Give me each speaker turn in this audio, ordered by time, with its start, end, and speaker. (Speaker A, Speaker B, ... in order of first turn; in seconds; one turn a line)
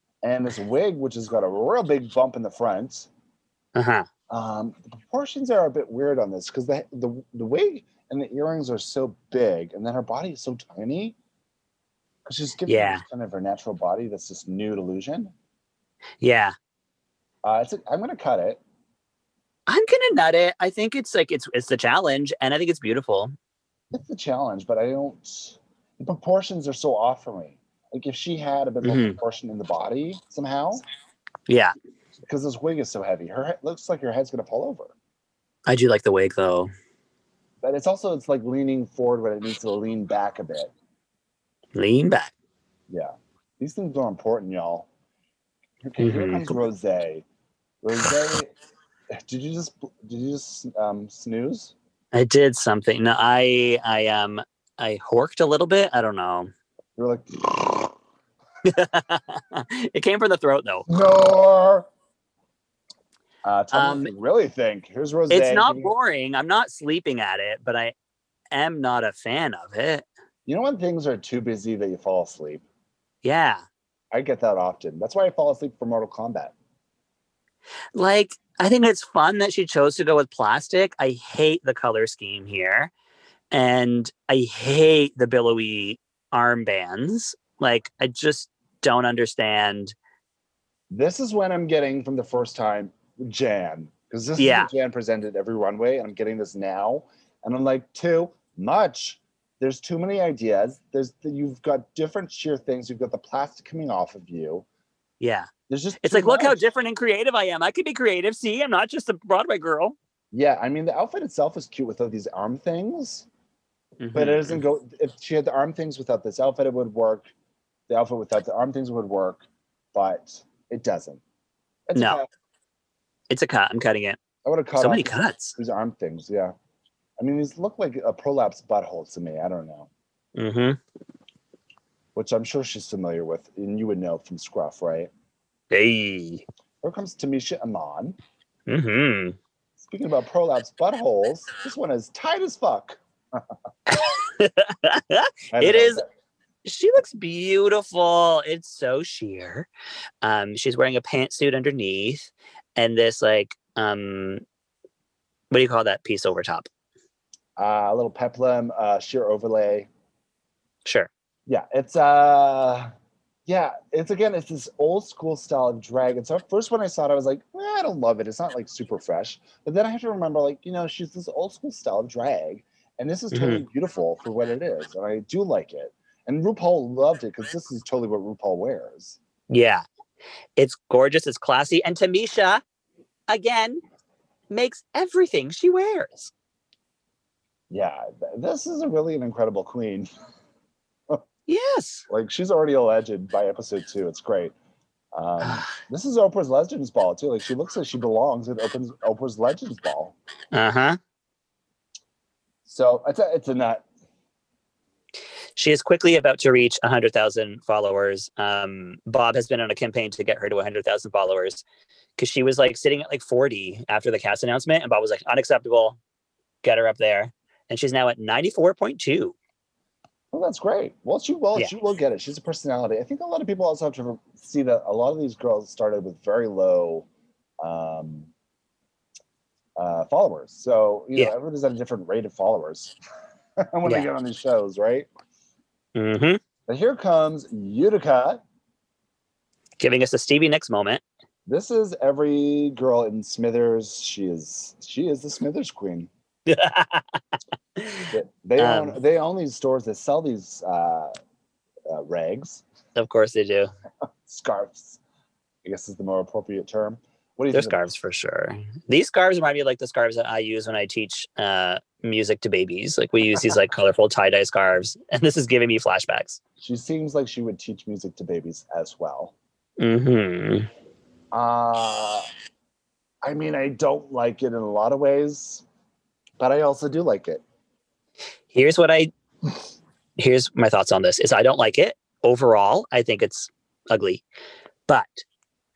Speaker A: 0.2-3.1
Speaker B: 3.8-4.1
Speaker A: 4.3-11.2
Speaker A: 12.3-15.3
Speaker B: 12.7-13.0
Speaker B: 16.2-16.6
Speaker A: 17.4-18.6
Speaker B: 19.7-23.4
Speaker A: 23.9-30.8
Speaker B: 28.8-29.2
Speaker B: 31.5-31.7
Speaker A: 32.2-34.9
Speaker B: 35.7-36.7
Speaker A: 37.6-40.7
Speaker B: 41.7-42.3
Speaker A: 42.9-44.9
Speaker A: 45.9-47.3
Speaker B: 46.0-46.6
Speaker A: 47.8-48.5
Speaker A: 49.1-51.7
Speaker B: 52.1-56.5
Speaker A: 57.0-57.9
Speaker B: 58.6-60.9
Speaker A: 60.9-61.9
Speaker A: 63.5-65.9
Speaker B: 63.7-64.1
Speaker B: 65.3-67.9
Speaker B: 68.5-70.0
Speaker A: 70.5-72.6
Speaker B: 73.2-73.6
Speaker A: 74.1-76.5
Speaker B: 78.0-82.9
Speaker B: 83.5-90.0
Speaker A: 90.9-104.7
Speaker B: 94.4-94.7
Speaker B: 105.2-105.5
Speaker A: 105.7-106.6
Speaker B: 106.0-110.0
Speaker A: 110.3-113.3
Speaker B: 114.0-114.6
Speaker A: 114.1-117.3
Speaker A: 117.9-121.2
Speaker A: 121.9-122.3
Speaker B: 122.0-122.2
Speaker B: 123.3-124.2
Speaker A: 124.5-126.5
Speaker B: 124.8-125.6
Speaker A: 127.2-129.9
Speaker B: 130.4-130.8
Speaker A: 132.2-135.1
Speaker B: 135.7-136.4
Speaker A: 136.8-138.2
Speaker B: 138.7-139.4
Speaker A: 139.8-143.0
Speaker B: 143.9-146.0
Speaker A: 145.5-146.1
Speaker B: 146.6-149.7
Speaker B: 150.2-154.4
Speaker B: 155.5-156.7
Speaker A: 157.6-159.9
Speaker B: 160.8-161.1
Speaker A: 161.5-162.9
Speaker A: 163.5-179.2
Speaker B: 173.3-173.6
Speaker B: 179.5-179.8
Speaker B: 180.6-182.6
Speaker B: 183.3-183.8
Speaker B: 184.5-186.3
Speaker A: 187.7-190.1
Speaker B: 191.5-192.1
Speaker A: 192.1-194.6
Speaker A: 195.1-200.2
Speaker B: 200.5-201.0
Speaker A: 202.7-203.8
Speaker B: 205.6-211.6
Speaker B: 212.2-216.0
Speaker B: 216.6-219.3
Speaker A: 220.3-227.1
Speaker A: 227.6-228.3
Speaker A: 229.8-232.9
Speaker A: 233.7-235.1
Speaker B: 235.9-236.4
Speaker A: 236.7-238.4
Speaker B: 239.8-241.0
Speaker A: 241.5-246.1
Speaker B: 246.5-247.2
Speaker B: 247.8-248.1
Speaker A: 248.1-251.2
Speaker B: 248.6-249.0
Speaker A: 251.9-252.6
Speaker B: 252.9-253.7
Speaker A: 254.3-255.0
Speaker A: 255.7-257.8
Speaker B: 257.5-266.4
Speaker A: 266.6-269.3
Speaker B: 269.8-270.7
Speaker A: 271.3-272.3
Speaker A: 273.2-275.6
Speaker A: 276.4-277.4
Speaker B: 278.5-279.1
Speaker B: 280.2-284.2
Speaker B: 284.9-285.2